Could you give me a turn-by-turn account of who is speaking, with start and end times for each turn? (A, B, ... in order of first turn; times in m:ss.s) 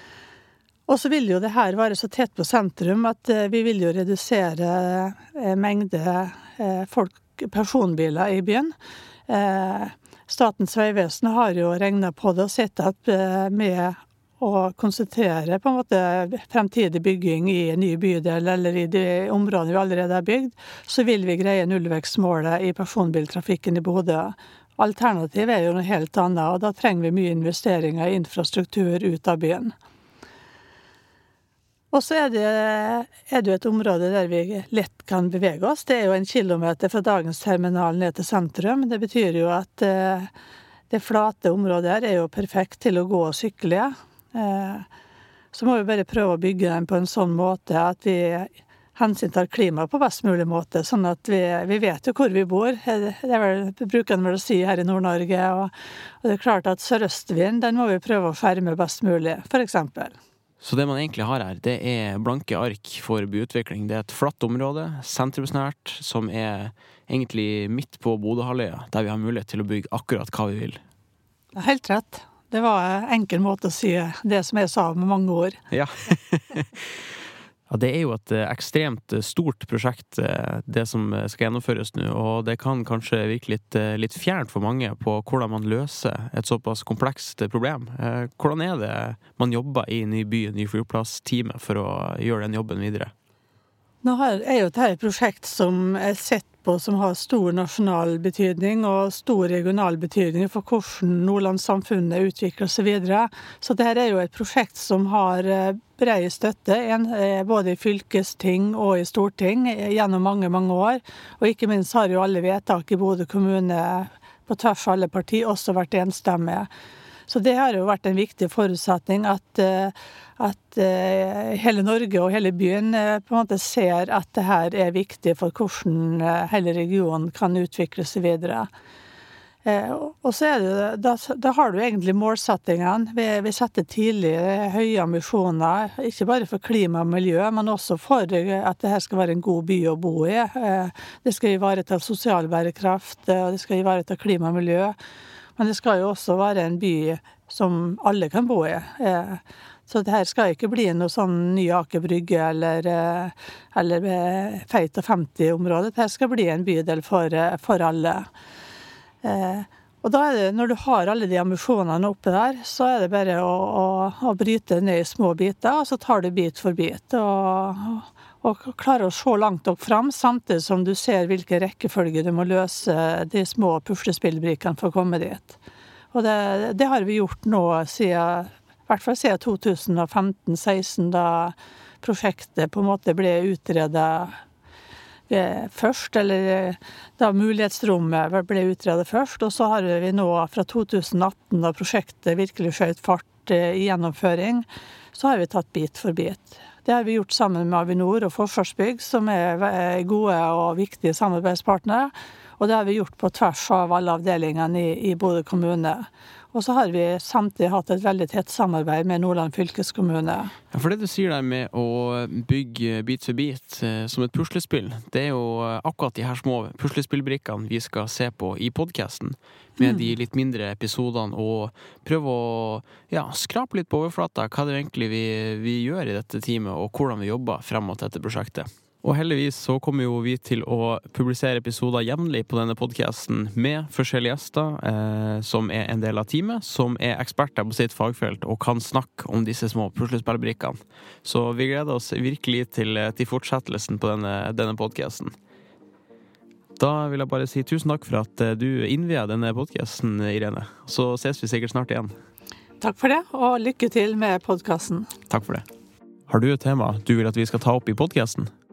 0:00.9-0:08.7 A
0:09.3-0:29.7 A
0:31.9-0:40.3 A
0:40.9-0:44.8 A
0:45.5-1:00.2 A
1:00.6-1:10.8 B
1:11.5-1:15.6 A
1:15.7-1:16.8 B
1:17.7-1:33.1 B
1:34.0-1:56.7 A
1:57.3-2:08.7 A
2:09.6-2:25.0 A
2:25.6-2:38.3 A
2:39.2-2:55.6 A
2:56.1-3:04.3 A
3:05.3-3:30.5 A
3:30.7-4:05.3 B
3:39.8-3:40.0 A
4:06.8-4:12.1 B
4:12.8-4:15.1 A
4:15.3-4:15.6 B
4:16.3-4:18.5 B